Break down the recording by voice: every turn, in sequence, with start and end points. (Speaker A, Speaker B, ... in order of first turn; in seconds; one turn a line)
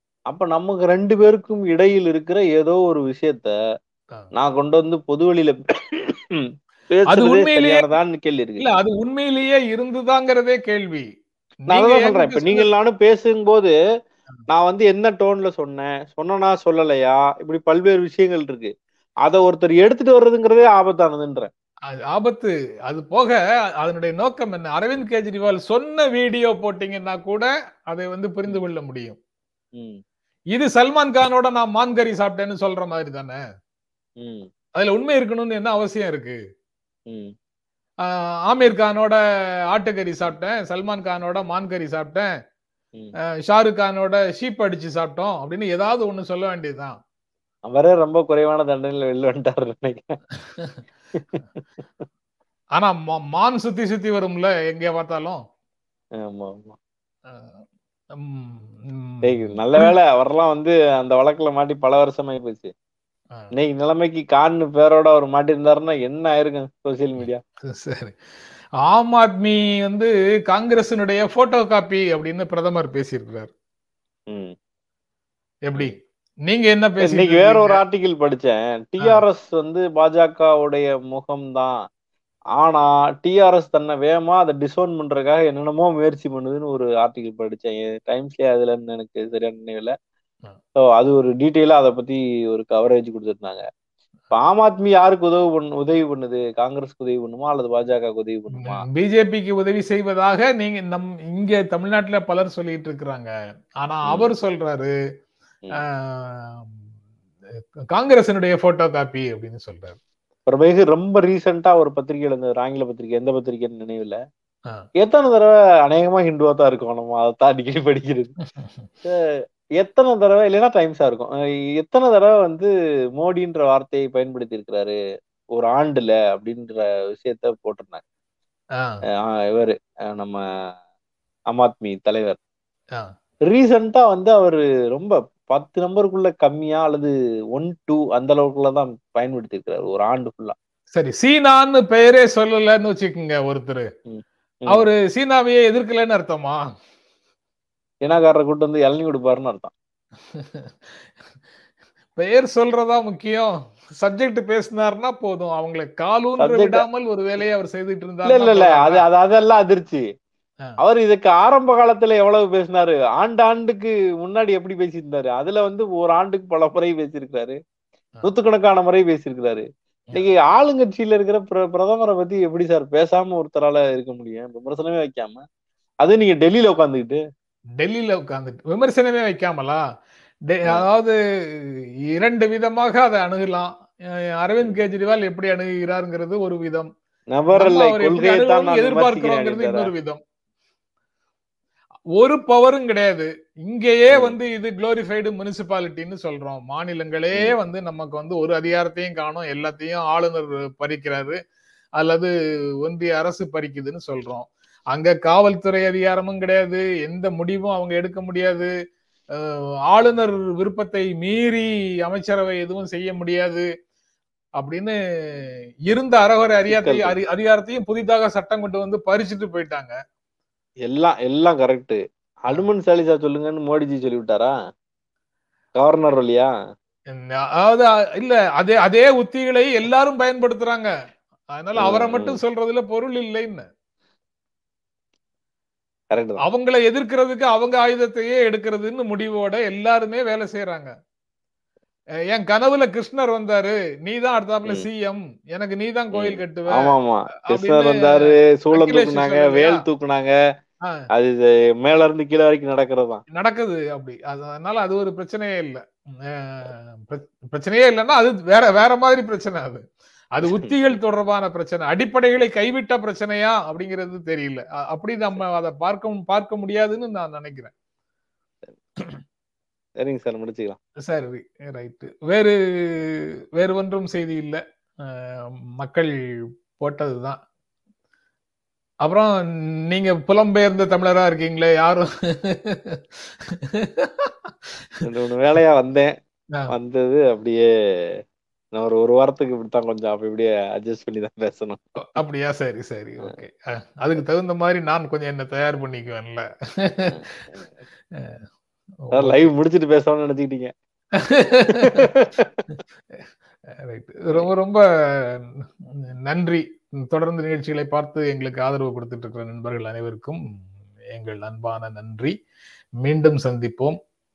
Speaker A: 0.3-3.5
Speaker A: 4.4-8.7
Speaker B: 7.1-7.8
Speaker B: 8.6-11.1
Speaker B: 11.6-12.7
Speaker A: 11.7-13.7
Speaker A: 14.5-18.7
Speaker A: 19.2-21.5
Speaker B: 21.9-29.2
Speaker A: 29.7-30.0
Speaker B: 30.5-33.4
Speaker A: 34.2-34.5
Speaker B: 34.8-36.4
Speaker B: 38.0-39.2
Speaker B: 39.7-42.3
Speaker B: 43.4-47.0
Speaker A: 47.7-50.0
Speaker B: 50.5-50.8
Speaker B: 52.8-55.4
Speaker A: 56.2-56.8
Speaker B: 57.3-57.6
Speaker B: 58.1-59.9
Speaker A: 59.2-62.7
Speaker A: 63.5-67.4
Speaker B: 67.6-68.2
Speaker B: 68.8-73.5
Speaker B: 75.7-75.9
Speaker B: 76.5-77.8
Speaker A: 77.0-81.7
Speaker A: 82.6-89.9
Speaker A: 90.9-93.6
Speaker A: 94.3-98.8
Speaker B: 98.6-103.3
Speaker B: 103.8-104.9
Speaker B: 105.8-106.8
Speaker B: 107.6-110.0
Speaker A: 110.5-114.2
Speaker A: 115.0-118.3
Speaker A: 119.8-125.0
Speaker A: 125.5-128.0
Speaker A: 129.2-130.4
Speaker A: 131.5-132.4
Speaker A: 133.5-140.5
Speaker B: 140.9-143.9
Speaker A: 144.1-144.9
Speaker B: 144.7-146.6
Speaker A: 148.0-149.7
Speaker B: 150.3-151.0
Speaker B: 152.2-159.0
Speaker A: 156.4-156.8
Speaker A: 158.2-160.0
Speaker A: 160.8-167.6
Speaker A: 168.2-175.4
Speaker A: 176.0-177.2
Speaker B: 177.8-179.8
Speaker B: 180.5-186.9
Speaker A: 187.3-189.9
Speaker B: 187.5-190.2
Speaker B: 192.2-201.4
Speaker A: 194.1-194.3
Speaker B: 202.0-202.3
Speaker B: 202.8-208.7
Speaker B: 209.3-213.6
Speaker B: 214.6-219.9
Speaker A: 216.7-217.2
Speaker A: 220.8-224.5
Speaker A: 225.8-226.5
Speaker B: 227.1-230.9
Speaker B: 231.5-233.7
Speaker A: 231.8-232.4
Speaker A: 236.1-236.4
Speaker B: 236.4-240.9
Speaker B: 242.3-249.8
Speaker A: 246.1-250.3
Speaker A: 251.1-253.2
Speaker B: 253.3-267.7
Speaker A: 260.4-260.7
Speaker A: 270.0-270.8
Speaker B: 271.1-276.1
Speaker B: 276.8-277.4
Speaker B: 279.0-279.4
Speaker B: 279.9-285.0
Speaker A: 285.0-286.1
Speaker A: 286.7-288.2
Speaker A: 288.7-291.8
Speaker B: 292.1-297.4
Speaker B: 299.1-299.5
Speaker A: 299.1-300.7
Speaker B: 301.3-302.1
Speaker A: 301.8-302.6
Speaker B: 303.8-310.4
Speaker B: 311.1-312.3
Speaker B: 313.0-314.0